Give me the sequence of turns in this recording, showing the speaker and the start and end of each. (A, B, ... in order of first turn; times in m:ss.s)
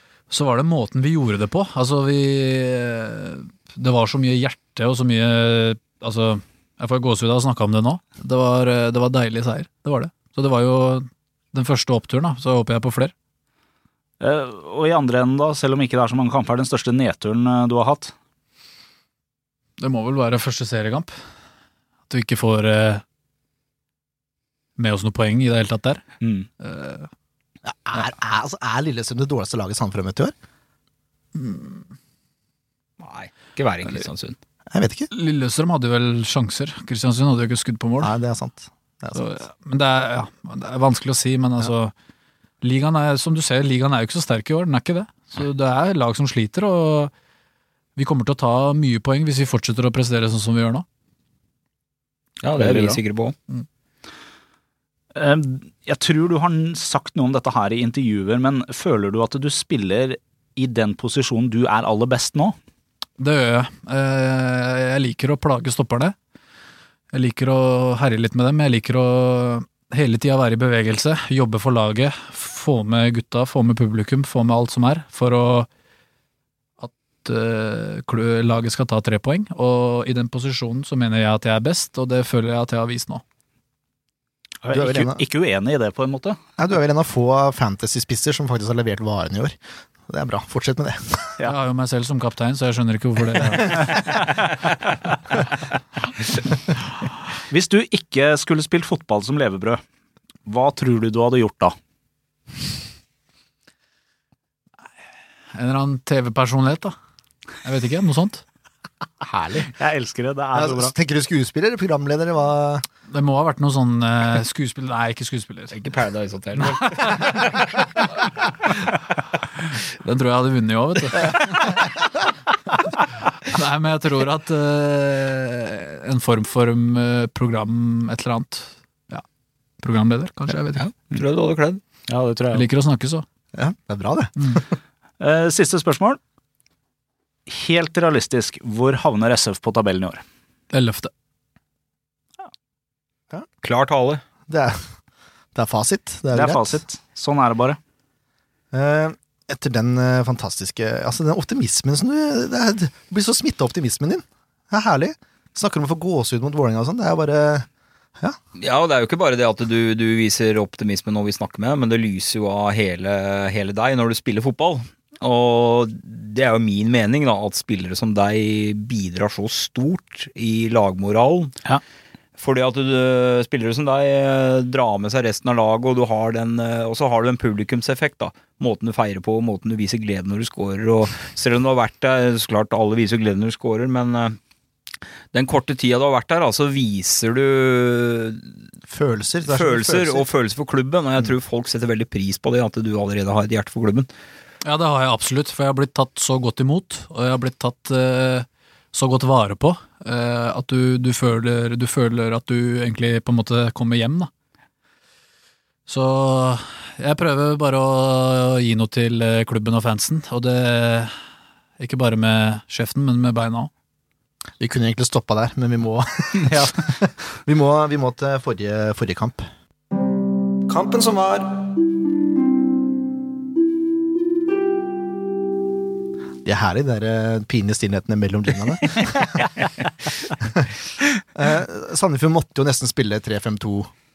0:00.3-0:13.1 A
0:14.2-0:18.2 B
0:19.8-0:21.1 A
0:22.1-0:23.0 A
0:24.8-0:26.0 A
0:26.2-0:26.5 B
0:26.6-0:27.1 A
0:27.6-0:30.3 C
0:31.4-0:31.8 A
0:33.0-0:34.4 D
0:34.7-0:35.1 C
0:35.1-0:38.1 A
0:38.0-0:39.4 C
0:39.1-0:41.9 A
0:42.6-0:47.1 A
0:48.0-0:50.8 A
0:52.4-0:53.4 D
0:52.5-0:53.0 B
0:55.1-1:02.6 B
1:03.2-1:06.2 A
1:07.1-1:15.7 A
1:16.8-1:23.2 A
1:24.6-1:26.4 B
1:24.7-1:25.2 C
1:26.6-1:31.4 C
1:31.4-1:34.2 A
1:37.5-1:39.8 B
1:40.5-1:41.8 B
1:45.5-1:47.0 A
1:47.6-1:48.4 A
1:49.2-1:49.7 C
1:49.7-1:50.9 B
1:50.5-1:52.8 C
1:53.1-1:55.8 A
1:55.7-1:57.9 D
1:56.6-1:57.4 A
1:59.9-2:02.2 A
2:03.4-2:09.2 A
2:09.8-2:10.9 A
2:10.8-2:11.8 D
2:12.1-2:12.7 B
2:12.5-2:13.3 A
2:13.6-2:14.6 C
2:15.2-2:16.2 B
2:17.5-2:20.2 B
2:20.7-2:21.1 A
2:23.6-2:24.2 D
2:24.5-2:24.8 C
2:25.6-2:26.8 C
2:26.3-2:27.8 B
2:28.7-2:37.7 C
2:38.6-2:51.5 D
2:52.4-3:04.4 D
3:05.3-3:08.5 D
3:08.9-3:10.3 C
3:09.5-3:14.1 D
3:14.6-3:24.3 A
3:25.9-3:31.2 A
3:31.8-3:33.7 A
3:34.6-3:39.5 C
3:36.4-3:36.8 B
3:40.7-3:41.5 C
3:46.4-3:49.3 C
3:50.4-3:50.7 C
3:51.4-3:53.9 C